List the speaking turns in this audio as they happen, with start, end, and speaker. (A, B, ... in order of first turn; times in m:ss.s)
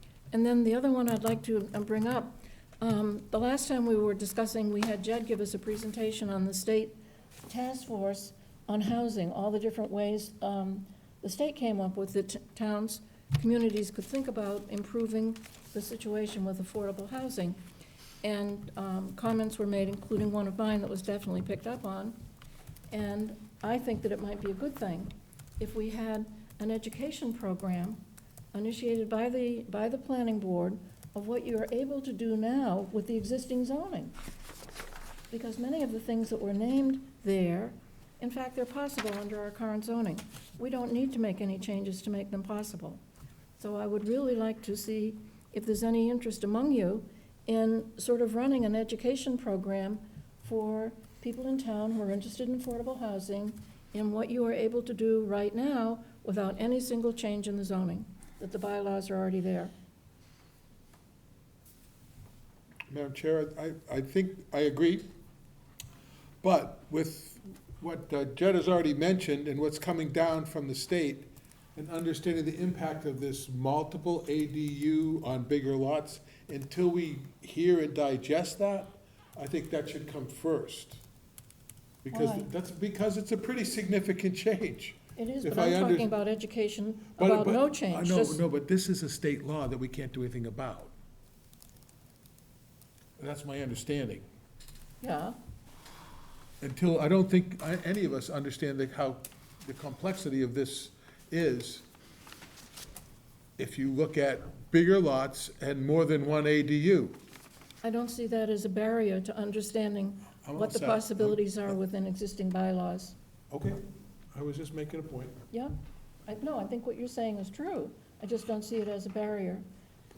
0:00.3-0:07.0 A
0:07.5-0:17.6 A
0:18.2-0:22.2 A
0:22.9-0:28.0 A
0:28.5-0:34.1 A
0:35.3-0:43.0 A
0:43.6-0:59.7 A
1:02.9-1:05.1 B
1:06.4-1:21.0 B
1:22.0-1:26.1 B
1:22.1-1:22.5 A
1:25.2-1:28.4 A
1:27.2-1:30.9 B
1:33.2-1:34.3 B
1:35.0-1:35.4 A
1:36.6-1:41.8 B
1:43.6-1:47.2 B
1:47.8-1:53.2 A
1:50.4-1:51.4 B
1:53.5-1:55.4 B
1:56.3-1:59.6 A